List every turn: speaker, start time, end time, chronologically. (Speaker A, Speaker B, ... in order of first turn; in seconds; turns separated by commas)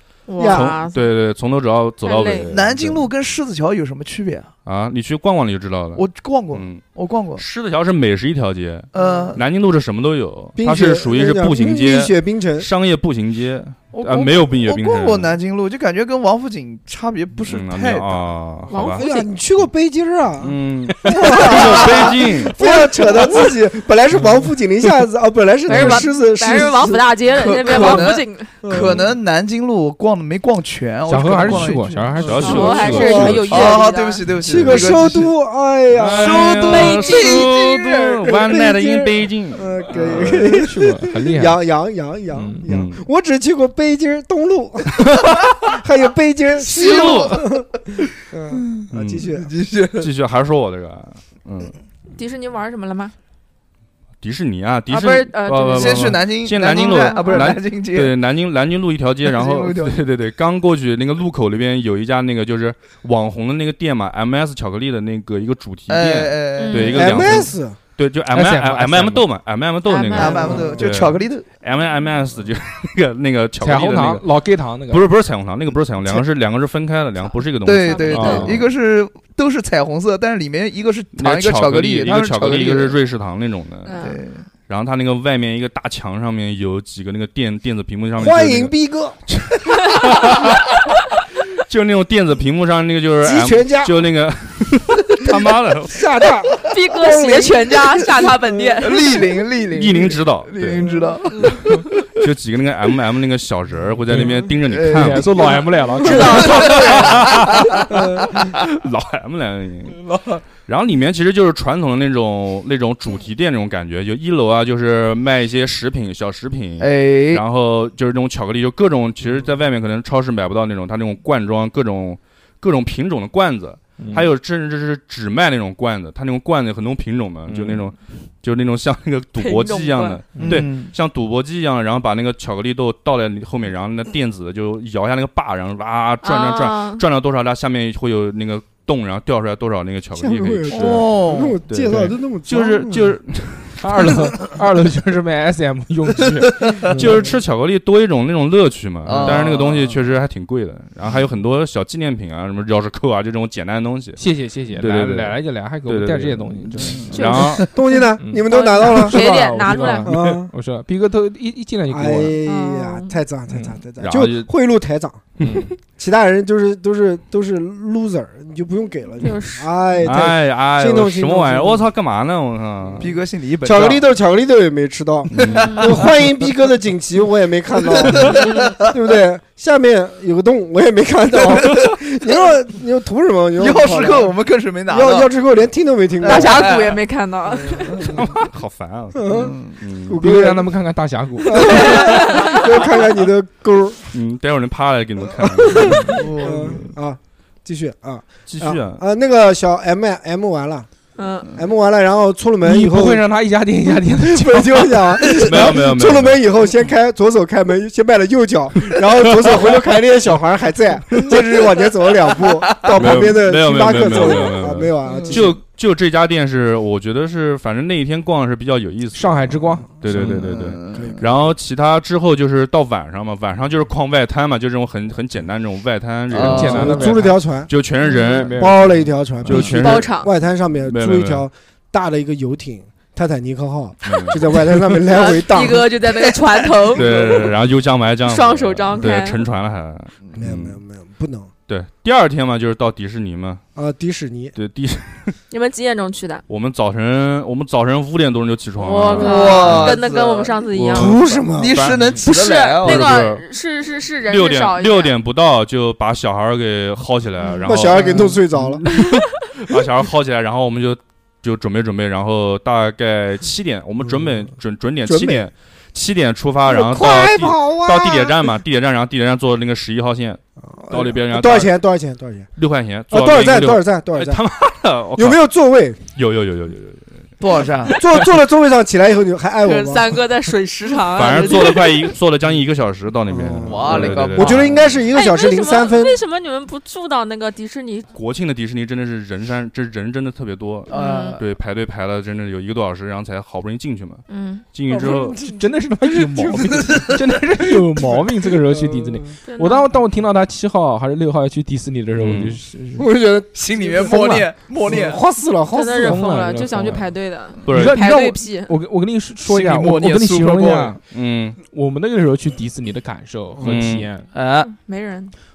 Speaker A: 0.3-1.1, Speaker B: 0.4-0.7, Speaker C: 0.4-3.1, Speaker A: 2.0-2.5, Speaker D: 2.5-4.5, Speaker C: 4.6-6.8, Speaker D: 5.9-7.4, Speaker C: 7.4-15.3, Speaker D: 8.9-9.4, Speaker B: 10.6-12.7, Speaker D: 13.9-18.3, Speaker C: 17.4-19.1, Speaker A: 18.7-19.3, Speaker B: 18.9-29.1, Speaker C: 20.4-22.6, Speaker D: 21.3-23.4, Speaker E: 24.1-24.5, Speaker A: 25.6-28.6, Speaker D: 25.8-26.0, Speaker D: 27.3-35.3, Speaker E: 31.1-33.3, Speaker C: 31.4-33.8, Speaker B: 32.2-33.8, Speaker A: 32.4-34.2, Speaker B: 34.4-49.5, Speaker C: 35.9-40.6, Speaker D: 36.0-37.8, Speaker A: 36.6-37.5, Speaker D: 39.9-40.3, Speaker E: 40.4-41.6, Speaker E: 42.3-42.6, Speaker C: 42.6-43.0, Speaker C: 46.7-47.4, Speaker D: 46.7-47.4, Speaker D: 48.5-50.1, Speaker C: 48.9-49.3, Speaker C: 50.0-51.7, Speaker A: 52.1-53.1, Speaker C: 54.2-74.3, Speaker A: 54.9-57.6, Speaker D: 55.7-58.2, Speaker D: 59.2-60.0, Speaker D: 65.9-67.3, Speaker A: 66.6-67.2, Speaker B: 66.9-67.8, Speaker E: 68.3-69.2, Speaker A: 69.8-70.7, Speaker D: 70.1-71.5, Speaker E: 73.6-75.0, Speaker C: 74.9-78.7, Speaker A: 77.2-78.6, Speaker D: 77.6-83.0, Speaker E: 78.1-78.6, Speaker C: 81.1-84.0, Speaker A: 83.8-84.2, Speaker D: 84.0-84.5, Speaker C: 84.7-88.7, Speaker B: 88.2-89.2, Speaker C: 89.3-90.8, Speaker C: 91.6-96.1, Speaker B: 93.2-94.0, Speaker B: 95.9-98.8, Speaker A: 96.6-99.2, Speaker D: 98.8-101.9, Speaker C: 99.7-100.9, Speaker A: 101.3-101.8, Speaker C: 101.4-105.5, Speaker E: 104.1-106.8, Speaker D: 104.6-108.6, Speaker A: 105.9-107.2, Speaker C: 106.1-110.0, Speaker B: 107.9-108.4, Speaker D: 110.0-110.4, Speaker C: 110.6-144.2, Speaker D: 116.8-117.4, Speaker E: 124.0-124.3, Speaker E: 127.5-127.8, Speaker A: 129.4-130.4, Speaker E: 130.3-130.6, Speaker D: 130.4-130.9, Speaker A: 136.2-137.0, Speaker B: 140.1-143.1, Speaker D: 140.7-141.6, Speaker E: 141.9-142.1, Speaker E: 143.8-147.3, Speaker C: 146.8-157.7, Speaker D: 149.0-150.0, Speaker E: 154.2-157.6, Speaker D: 156.8-157.1, Speaker A: 157.1-160.2, Speaker B: 157.6-159.2, Speaker E: 158.2-162.4, Speaker B: 160.0-160.5, Speaker B: 161.9-171.8, Speaker A: 162.4-163.2, Speaker E: 163.5-163.8, Speaker C: 164.0-164.5, Speaker C: 165.4-165.7, Speaker E: 165.4-165.7, Speaker A: 169.2-169.7, Speaker C: 170.0-173.1, Speaker D: 173.0-174.0, Speaker B: 173.6-184.3, Speaker C: 175.3-175.8, Speaker D: 175.4-176.1, Speaker D: 177.8-178.9, Speaker D: 181.4-181.9, Speaker D: 183.6-185.3, Speaker B: 184.9-186.7, Speaker D: 186.2-187.0, Speaker A: 186.2-188.4, Speaker B: 187.6-188.1, Speaker D: 187.7-188.2, Speaker C: 188.1-190.2, Speaker B: 189.1-190.6, Speaker D: 189.2-189.8, Speaker E: 190.2-191.9, Speaker B: 191.4-194.0, Speaker A: 191.5-192.8, Speaker C: 194.1-196.2, Speaker B: 195.6-200.9, Speaker D: 195.8-196.9, Speaker C: 198.5-199.0, Speaker A: 201.2-201.5, Speaker B: 201.5-203.2, Speaker E: 202.6-205.4, Speaker B: 204.2-215.6, Speaker C: 205.3-206.4, Speaker C: 208.9-209.3, Speaker D: 211.2-213.4, Speaker C: 212.9-227.2, Speaker D: 214.1-214.4, Speaker D: 215.0-215.5, Speaker E: 219.1-219.9, Speaker D: 220.1-221.2, Speaker B: 220.1-221.4, Speaker D: 226.3-227.0, Speaker E: 226.4-227.4, Speaker B: 226.6-227.7, Speaker C: 227.7-230.2, Speaker E: 228.1-229.1, Speaker B: 228.5-236.0, Speaker A: 229.5-230.3, Speaker C: 230.8-231.4, Speaker C: 234.0-234.6, Speaker A: 235.1-237.5, Speaker D: 236.8-237.4, Speaker C: 236.9-240.8, Speaker A: 238.2-239.4, Speaker B: 240.4-241.5, Speaker C: 241.7-243.6, Speaker B: 243.7-244.5, Speaker C: 244.5-245.3, Speaker A: 245.5-246.4, Speaker C: 246.5-250.0, Speaker A: 248.8-251.2, Speaker D: 249.1-253.2, Speaker B: 249.2-249.9, Speaker B: 250.8-251.9, Speaker E: 251.7-252.3, Speaker A: 252.2-255.1, Speaker C: 252.8-253.4, Speaker C: 254.3-271.7, Speaker B: 257.6-258.8, Speaker D: 258.0-258.3, Speaker A: 258.9-259.2, Speaker B: 265.1-265.5, Speaker B: 266.6-268.5, Speaker B: 270.6-272.5, Speaker C: 272.6-275.4, Speaker B: 273.1-274.4, Speaker B: 275.1-276.0, Speaker C: 276.1-277.2, Speaker D: 277.4-278.0, Speaker B: 277.9-280.2, Speaker A: 279.6-282.1, Speaker C: 281.1-285.0, Speaker B: 283.3-286.2, Speaker D: 283.6-284.7, Speaker A: 285.1-288.1, Speaker C: 288.1-295.4, Speaker D: 290.9-291.4, Speaker A: 290.9-291.4, Speaker A: 294.3-294.6, Speaker B: 294.9-295.7, Speaker E: 295.4-303.1, Speaker B: 296.2-299.3, Speaker A: 299.5-299.9, Speaker C: 302.1-302.6, Speaker B: 303.0-306.4, Speaker D: 303.5-305.2, Speaker E: 303.9-304.9, Speaker A: 305.7-308.8, Speaker E: 306.0-307.1, Speaker C: 307.6-308.0, Speaker E: 307.6-311.0, Speaker D: 309.4-311.0, Speaker C: 311.1-311.6, Speaker E: 311.6-314.3, Speaker B: 313.5-313.8, Speaker C: 313.6-314.1, Speaker D: 314.3-314.7, Speaker A: 314.6-315.3